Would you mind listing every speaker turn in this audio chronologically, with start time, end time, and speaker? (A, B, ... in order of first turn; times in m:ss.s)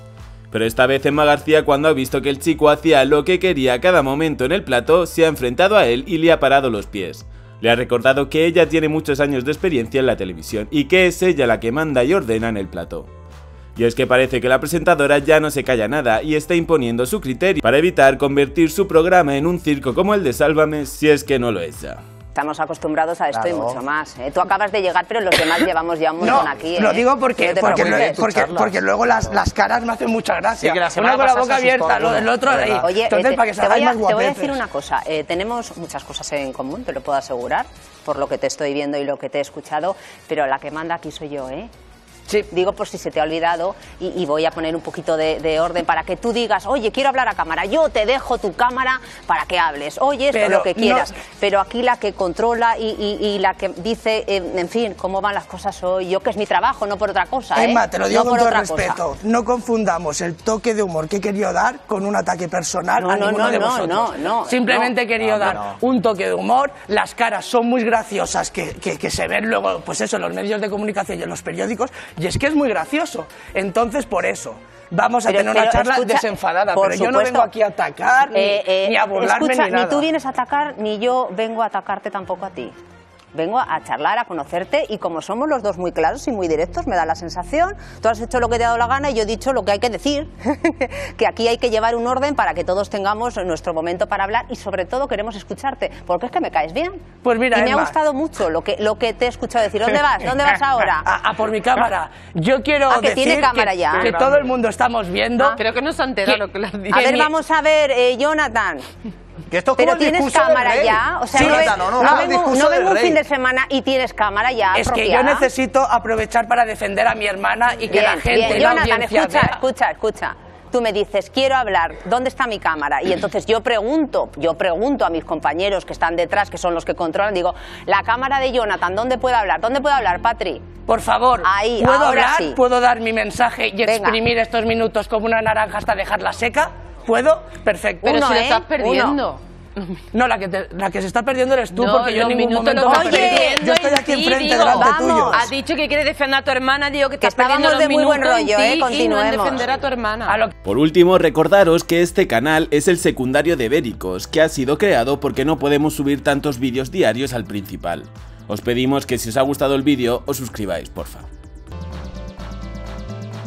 0:00.5-0:13.1 A
0:13.8-0:22.0 A
0:22.3-0:28.3 B
0:23.3-0:23.8 C
0:26.2-0:34.6 D
0:27.6-0:28.8 C
0:30.6-0:32.9 C
0:32.8-0:41.7 B
0:42.5-0:59.0 B
0:50.3-0:51.1 D
0:57.5-1:20.0 D
1:03.0-1:05.6 B
1:15.3-1:17.5 B
1:18.3-1:22.7 B
1:23.3-1:41.1 B
1:37.2-1:38.0 D
1:41.0-1:45.6 D
1:42.9-1:44.2 B
1:45.5-1:47.3 E
1:46.9-1:48.8 B
1:49.5-1:53.2 C
1:49.7-1:55.5 B
1:51.3-1:52.4 D
1:54.7-1:59.6 D
1:57.9-2:10.7 B
2:10.9-2:18.1 D
2:11.4-2:12.6 B
2:13.8-2:14.2 B
2:18.0-2:20.0 E
2:18.0-2:19.2 B
2:20.1-2:25.4 D
2:21.7-2:30.4 E
2:22.8-2:23.6 B
2:24.5-2:25.5 B
2:27.2-2:29.6 B
2:30.6-2:41.3 A